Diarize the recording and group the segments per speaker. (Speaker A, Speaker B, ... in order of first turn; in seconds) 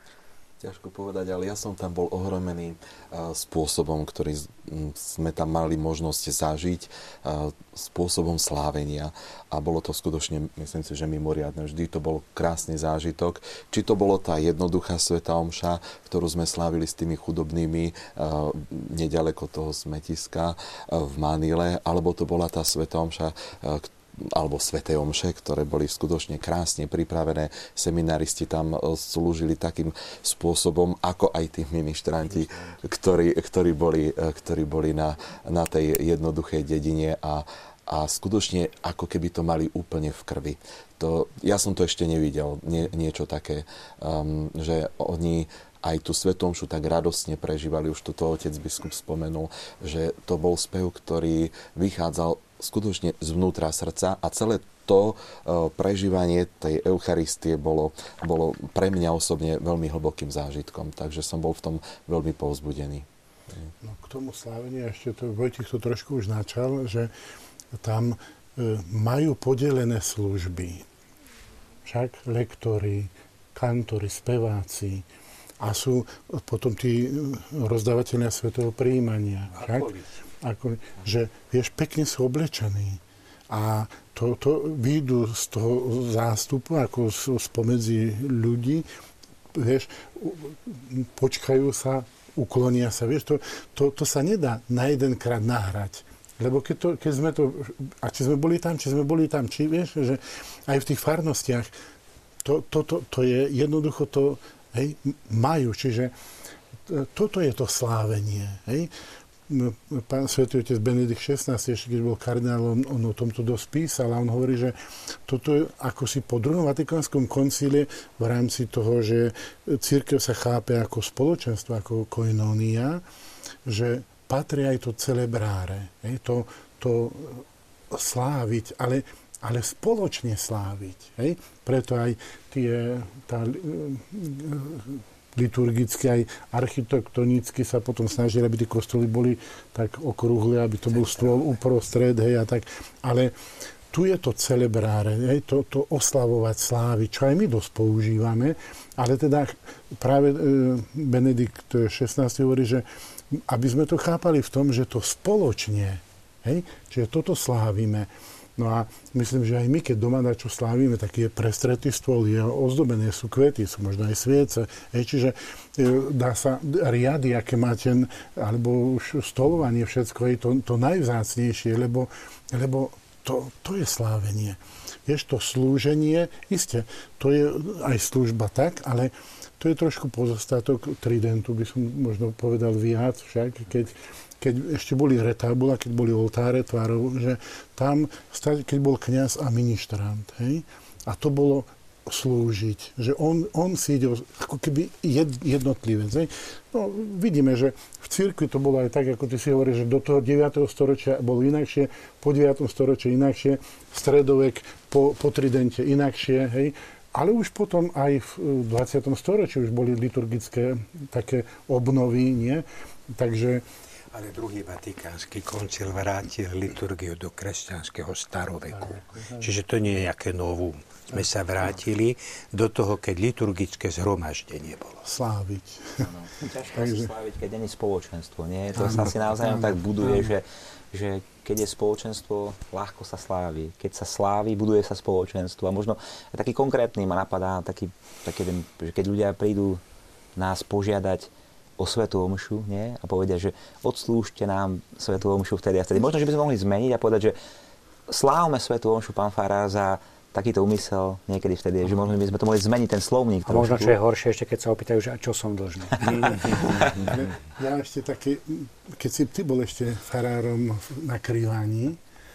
Speaker A: 0.6-63.0
Speaker B: 32.5-32.7, 79.5-80.1, 141.1-141.4, 214.1-225.0
Speaker C: 63.8-67.1, 67.7-70.8, 71.8-75.0, 75.6-88.9, 89.5-101.7, 102.4-106.1, 106.8-108.9, 109.5-123.0, 123.6-143.3, 143.9-213.6, 218.7-219.6, 225.0-226.1, 226.7-227.1, 228.7-230.3, 256.9-262.0
Speaker D: 226.0-239.8, 240.3-247.4, 248.1-254.0
Speaker E: 253.5-256.8